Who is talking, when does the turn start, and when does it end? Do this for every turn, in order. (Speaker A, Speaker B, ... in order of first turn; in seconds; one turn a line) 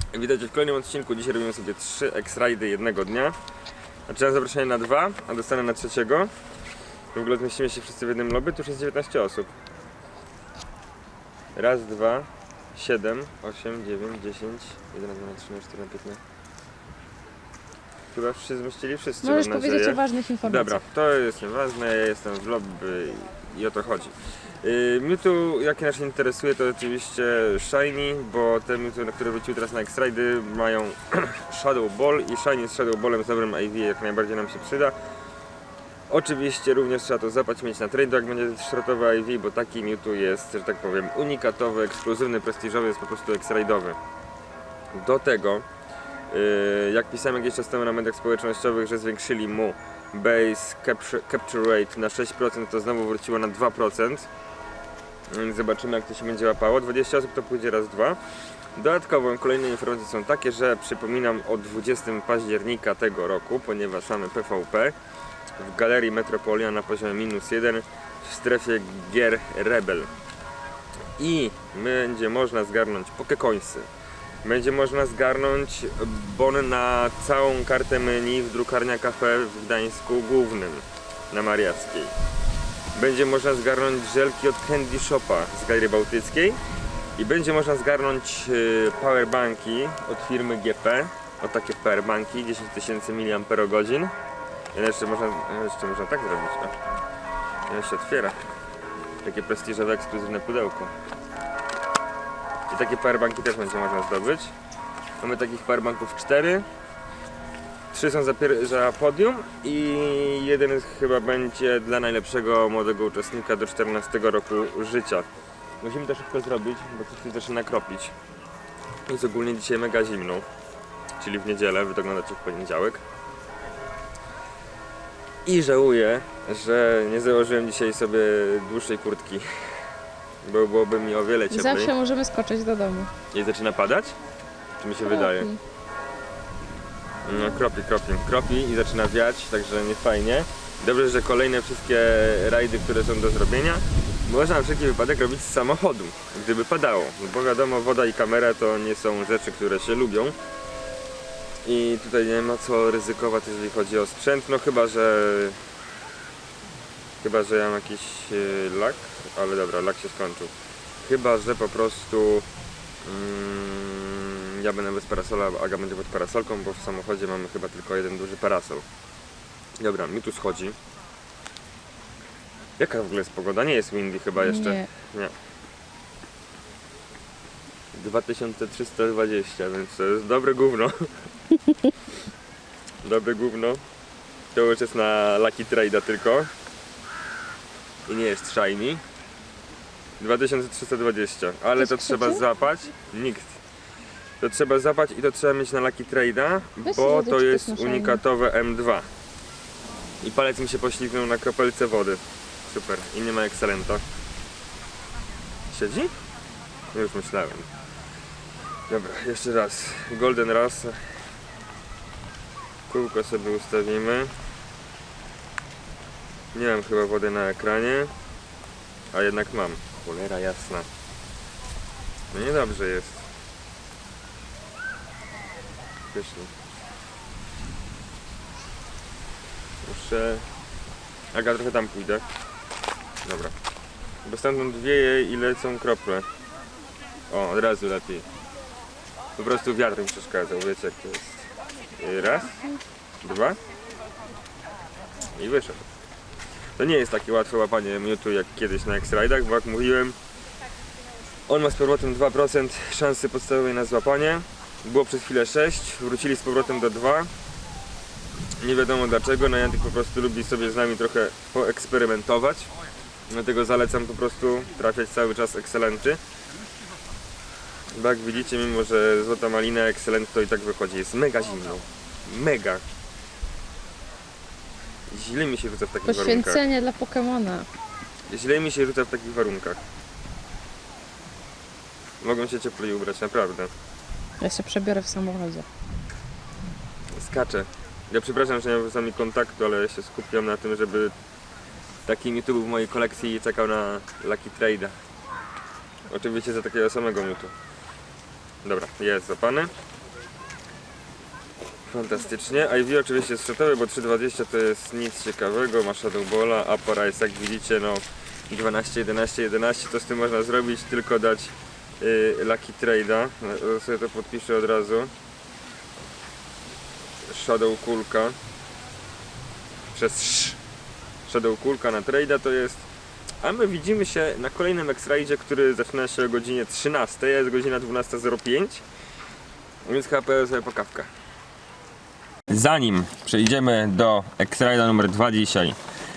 Speaker A: 0.1-3.3
Speaker A: 4.1-6.3
Speaker A: 7.1-9.5
Speaker A: 11.5-16.2
Speaker A: 18.1-34.9
Speaker B: 19.2-20.8
Speaker A: 36.1-44.0
Speaker A: 44.9-45.6
Speaker A: 46.3-54.3
Speaker A: 55.3-58.2
Speaker A: 58.7-65.0
Speaker A: 65.6-70.1
Speaker A: 71.2-73.9
Speaker A: 74.4-82.1
Speaker A: 82.9-86.6
Speaker A: 87.2-94.1
Speaker A: 94.7-96.8
Speaker A: 97.7-98.3
Speaker A: 99.2-100.9
Speaker A: 102.7-104.5
Speaker A: 105.2-106.6
Speaker A: 107.9-115.2
Speaker A: 115.8-118.1
Speaker A: 119.1-120.5
Speaker A: 121.2-123.0
Speaker A: 125.4-129.5
Speaker A: 130.4-131.9
Speaker B: 131.5-133.1
Speaker A: 133.3-134.1
Speaker A: 134.8-135.5
Speaker B: 135.0-135.6
Speaker A: 137.2-150.3
Speaker A: 151.6-155.6
Speaker A: 157.2-162.5
Speaker A: 163.0-168.8
Speaker A: 169.8-170.8
Speaker A: 172.8-175.3
Speaker B: 174.4-174.9
Speaker A: 177.9-181.1
Speaker A: 183.0-183.8
Speaker A: 184.5-186.5
Speaker A: 188.1-189.0
Speaker A: 190.2-193.6
Speaker B: 191.8-192.4
Speaker A: 194.4-199.1
Speaker B: 196.8-198.2
Speaker A: 200.2-204.0
Speaker A: 205.7-206.1
Speaker A: 206.9-207.7
Speaker A: 208.9-211.0
Speaker A: 212.9-214.3
Speaker A: 216.5-218.1
Speaker A: 219.1-220.9
Speaker A: 222.3-223.3
Speaker A: 226.1-226.5
Speaker A: 229.8-230.5
Speaker A: 231.3-232.2
Speaker A: 233.2-233.5
Speaker A: 234.2-236.3
Speaker A: 237.3-238.2
Speaker A: 239.4-242.6
Speaker A: 243.2-243.6
Speaker A: 245.3-245.8
Speaker A: 246.8-250.2
Speaker A: 251.5-257.3
Speaker A: 258.6-262.7
Speaker A: 263.3-266.2
Speaker A: 267.9-272.8
Speaker A: 275.1-276.6
Speaker B: 276.0-277.6
Speaker A: 278.3-279.8
Speaker A: 282.2-283.7
Speaker B: 284.4-285.6
Speaker A: 287.1-291.1
Speaker A: 292.1-295.0
Speaker A: 296.1-297.5
Speaker A: 298.6-299.7
Speaker A: 301.9-315.1
Speaker A: 317.3-318.4
Speaker A: 319.9-320.6
Speaker A: 321.2-322.8
Speaker A: 323.4-328.8
Speaker A: 329.9-331.1
Speaker A: 332.5-335.8